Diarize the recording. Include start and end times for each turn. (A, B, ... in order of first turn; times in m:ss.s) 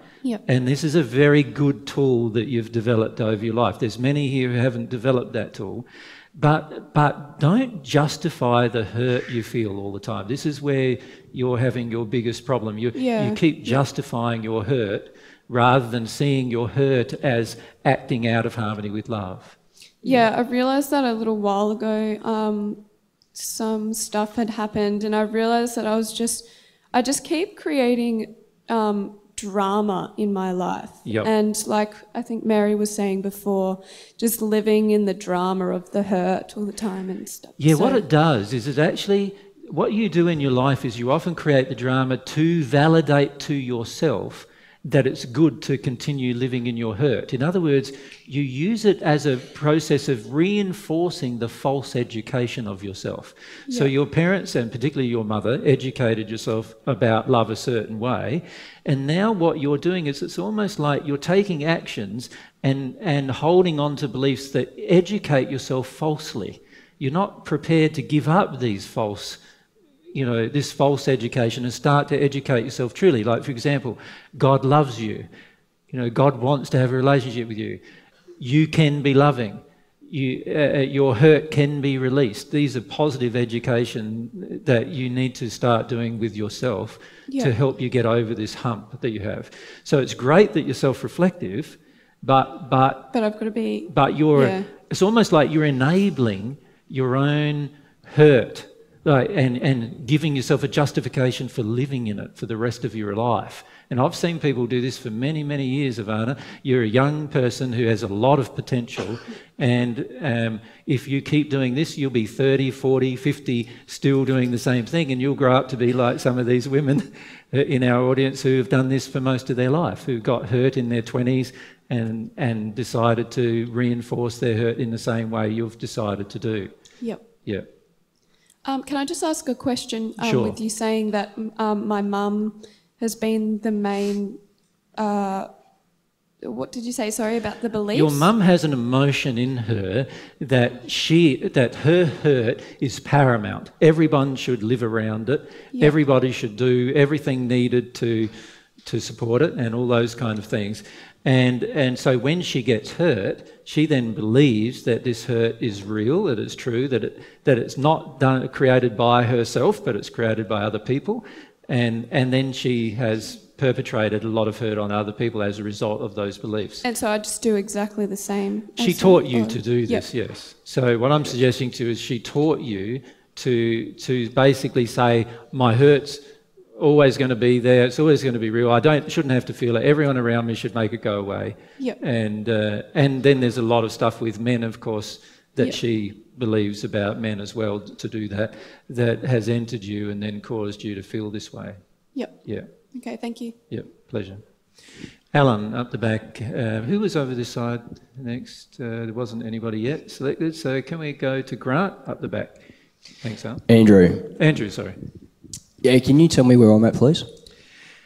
0:00.4-0:20.3 A
0:12.9-0:13.8 B
0:20.0-0:38.0 B
0:31.0-0:31.3 A
0:37.6-1:09.4 A
1:10.1-1:15.3 A
1:15.9-1:17.8 A
1:18.4-1:33.1 A
1:33.1-1:34.7 B
1:33.9-2:06.7 A
2:08.6-2:14.4 B
2:10.2-2:10.6 A
2:14.9-2:15.5 B
2:16.4-2:18.3 B
2:17.9-2:28.3 A
2:28.8-2:46.8 A
2:46.8-2:50.1 B
2:48.8-2:56.2 A
2:56.8-3:11.8 A
3:12.1-3:13.6 B
3:12.4-3:12.7 A
3:13.7-3:14.4 A
3:15.3-3:22.6 A
3:23.2-3:25.0 A
3:23.7-3:24.3 C
3:25.8-3:27.3 C